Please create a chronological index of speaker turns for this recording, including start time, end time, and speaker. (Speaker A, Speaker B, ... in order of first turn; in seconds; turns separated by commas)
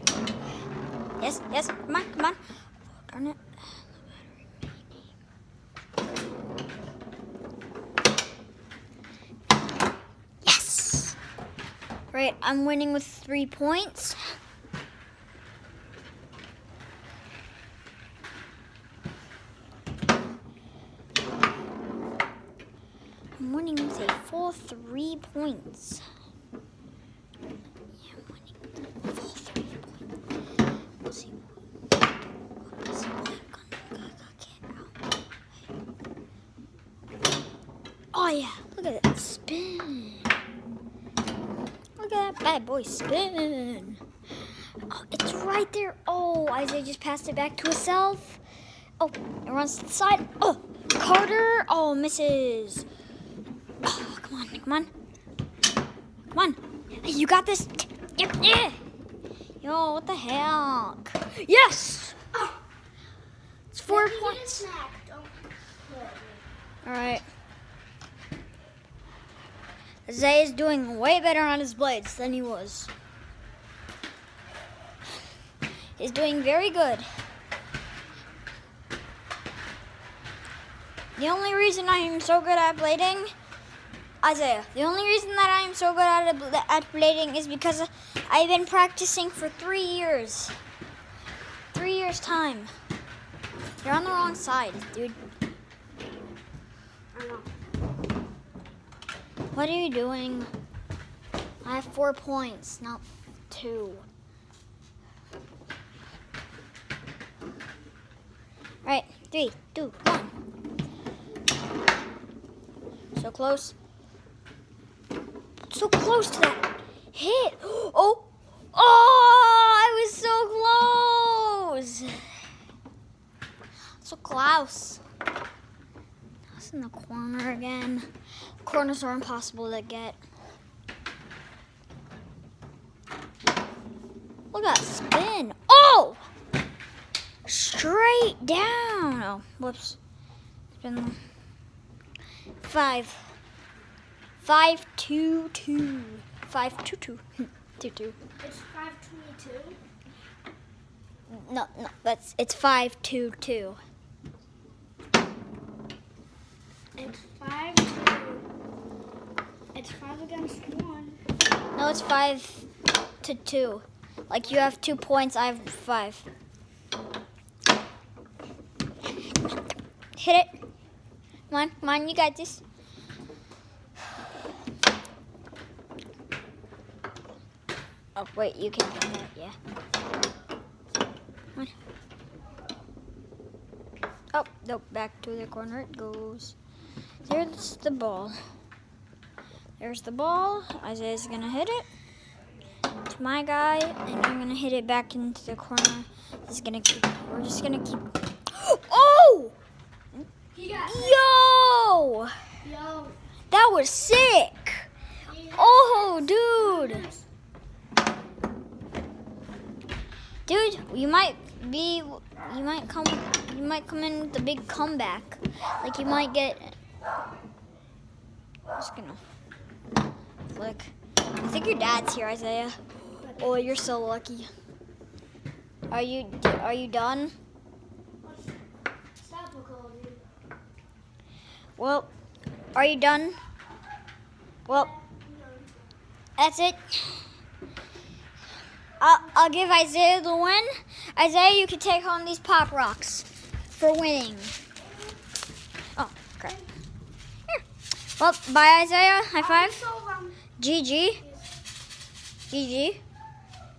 Speaker A: 1.2-2.4, Speaker A: 2.9-5.0, Speaker A: 10.4-11.2, Speaker A: 12.1-14.2, Speaker A: 23.4-26.0, Speaker A: 28.0-28.5, Speaker A: 29.0-29.9, Speaker A: 31.0-31.5, Speaker A: 32.7-34.9, Speaker A: 38.1-40.3, Speaker A: 42.0-44.0, Speaker A: 44.9-48.4, Speaker A: 49.0-52.9, Speaker A: 53.8-54.9, Speaker A: 56.3-58.8, Speaker A: 59.6-62.2, Speaker B: 62.3-62.6, Speaker A: 63.7-64.7, Speaker B: 63.9-66.4, Speaker A: 66.8-67.2, Speaker A: 70.1-72.9, Speaker A: 76.0-77.1, Speaker A: 81.2-83.3, Speaker A: 84.2-90.5, Speaker A: 91.7-92.7, Speaker A: 93.8-95.2, Speaker B: 97.1-97.5, Speaker A: 99.5-100.5, Speaker A: 101.6-104.0, Speaker A: 108.8-110.3, Speaker A: 113.2-113.7, Speaker A: 115.7-122.3, Speaker A: 124.0-125.0, Speaker A: 126.5-128.1, Speaker A: 128.6-130.2, Speaker A: 134.5-136.2, Speaker A: 137.5-140.0, Speaker A: 140.7-141.2, Speaker A: 142.6-143.3, Speaker A: 144.4-148.2, Speaker B: 148.4-149.8, Speaker A: 151.3-153.8, Speaker B: 157.0-158.4, Speaker B: 159.7-161.2, Speaker A: 161.8-162.7, Speaker A: 163.2-166.2, Speaker A: 170.2-170.5, Speaker A: 171.5-172.6, Speaker A: 178.2-179.6, Speaker A: 184.3-186.6, Speaker A: 187.2-188.4, Speaker A: 189.8-191.9, Speaker A: 193.1-199.6, Speaker B: 200.5-201.3, Speaker A: 200.8-202.3, Speaker B: 202.6-203.2, Speaker A: 203.5-204.9, Speaker B: 205.2-207.2, Speaker A: 205.6-207.0, Speaker A: 210.5-216.8, Speaker A: 218.8-219.2, Speaker A: 220.5-222.8, Speaker B: 223.2-223.9, Speaker A: 223.4-224.5, Speaker A: 225.9-227.3, Speaker B: 228.2-228.5, Speaker B: 229.2-230.2, Speaker A: 231.8-232.1, Speaker A: 232.8-233.4, Speaker B: 234.7-235.8, Speaker A: 236.4-237.3, Speaker A: 239.0-244.6, Speaker A: 246.0-246.6, Speaker A: 248.2-249.8, Speaker B: 249.4-250.4, Speaker A: 250.6-251.2, Speaker B: 251.2-251.5, Speaker A: 252.5-253.0